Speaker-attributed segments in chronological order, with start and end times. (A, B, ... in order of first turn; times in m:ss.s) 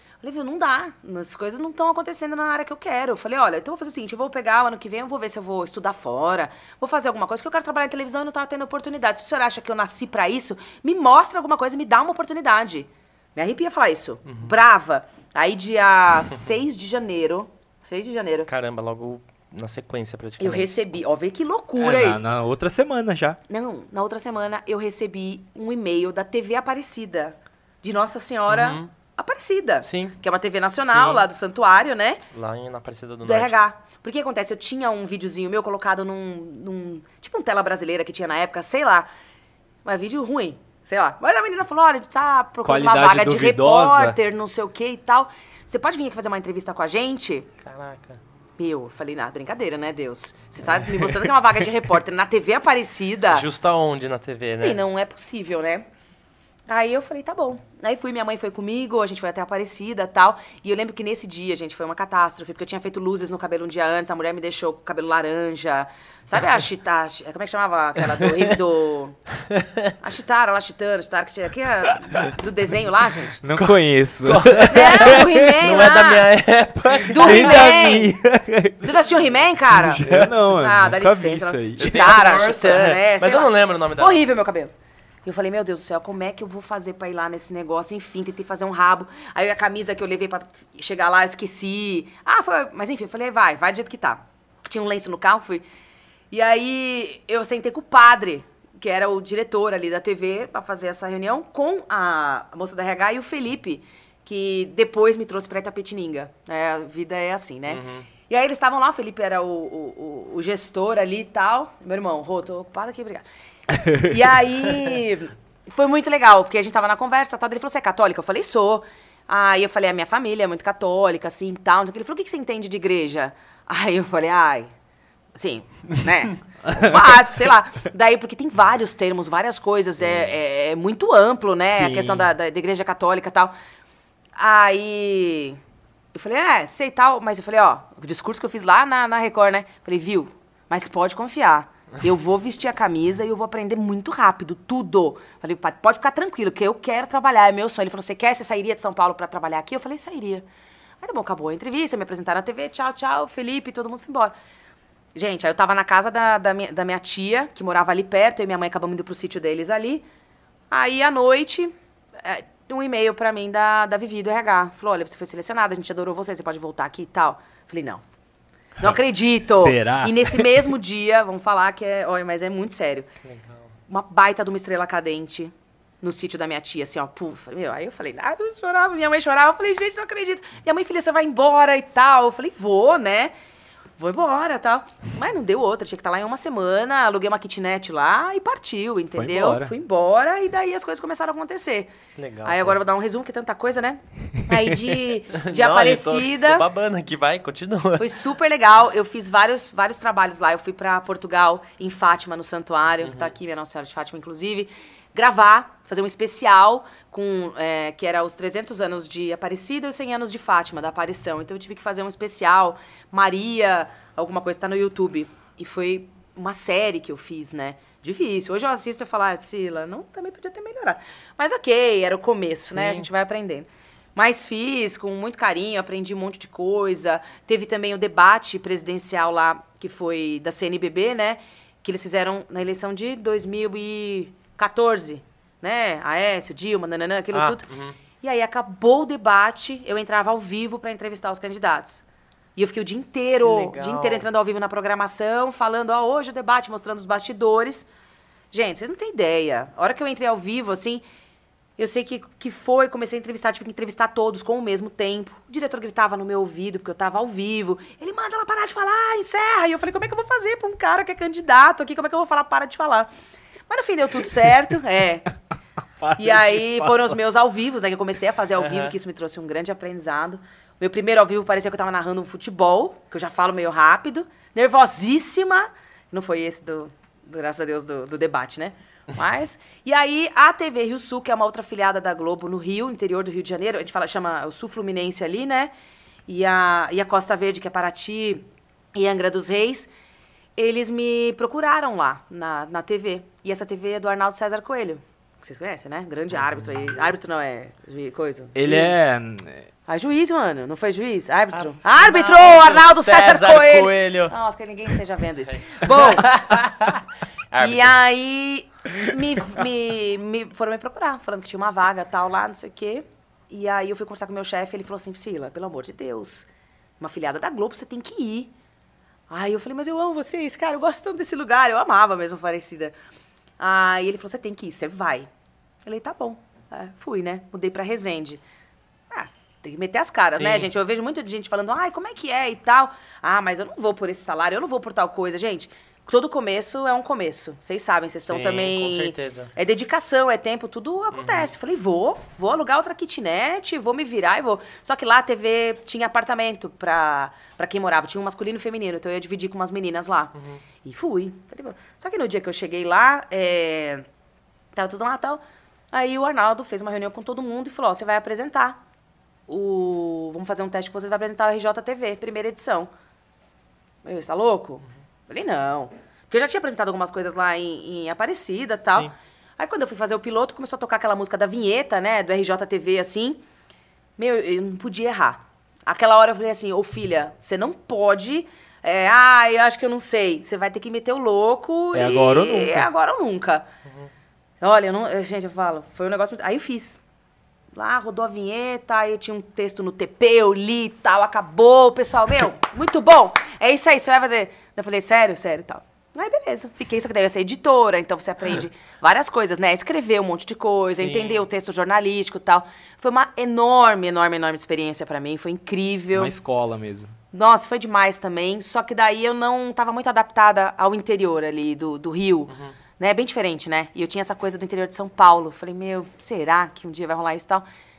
0:00.2-0:18.5 A
0:14.2-0:14.5 B
0:18.5-0:20.7 B
0:20.4-0:22.2 A
0:21.8-0:23.4 C
0:23.5-0:32.2 A
0:28.5-0:28.9 B
0:29.8-0:30.2 B
0:30.8-0:31.2 B
0:32.3-0:33.5 B
0:33.2-0:39.1 A
0:39.8-0:47.5 A
0:42.6-0:44.2 C
0:47.6-0:48.2 B
0:48.6-0:53.4 A
0:53.3-0:54.8 B
0:54.6-0:55.9 A
0:56.7-1:09.2 A
1:08.2-1:08.5 B
1:09.5-1:09.9 B
1:10.0-1:13.4 A
1:13.4-1:15.5 C
1:14.2-1:17.7 B
1:14.7-1:16.3 A
1:17.1-1:18.2 A
1:17.1-1:19.0 C
1:18.8-1:24.7 A
1:19.8-1:20.3 B
1:19.8-1:21.9 C
1:21.8-1:24.2 B
1:25.2-1:35.6 A
1:36.3-1:53.2 A
1:47.7-1:48.1 B
1:53.8-1:54.0 C
1:53.8-2:04.7 A
2:05.4-2:13.5 A
2:06.7-2:07.2 C
2:11.7-2:12.3 C
2:14.4-2:15.6 A
2:16.1-2:30.4 A
2:31.0-2:34.4 A
2:35.1-2:40.0 A
2:40.7-2:48.0 A
2:48.8-2:50.6 C
2:48.8-2:53.1 A
2:53.2-2:53.6 B
2:53.9-3:03.3 A
3:04.0-3:16.6 A
3:09.1-3:09.7 C
3:12.2-3:12.8 B
3:15.4-3:18.1 B
3:18.0-3:57.6 A
3:23.0-3:23.3 B
3:42.7-3:43.1 B
3:57.3-3:58.0 B
3:58.2-4:02.0 A
4:02.6-4:07.9 A
4:03.4-4:04.2 B
4:08.5-4:11.0 A
4:11.8-4:23.1 A
4:23.7-4:25.3 A
4:26.0-4:27.2 C
4:26.2-4:45.7 A
4:28.6-4:28.9 B
4:46.3-4:48.4 A
4:48.9-4:49.9 A
4:50.6-4:58.9 A
4:58.5-4:59.6 C
4:59.9-5:06.4 A
5:01.5-5:04.4 B
5:05.5-5:08.0 B
5:07.6-5:16.5 A
5:17.0-5:18.5 A
5:19.3-5:22.9 A
5:23.6-5:25.3 A
5:25.9-5:28.4 A
5:29.1-5:54.0 A
5:30.3-5:30.7 B
5:38.3-5:39.5 B
5:41.1-5:41.5 B
5:54.7-5:58.8 A
5:59.5-6:02.9 A
6:04.0-6:13.4 A
6:14.2-6:23.6 A
6:21.9-6:22.9 C
6:24.6-6:27.0 A
6:27.7-6:46.4 A
6:40.9-6:41.4 B
6:46.1-6:47.1 C
6:47.3-6:57.6 A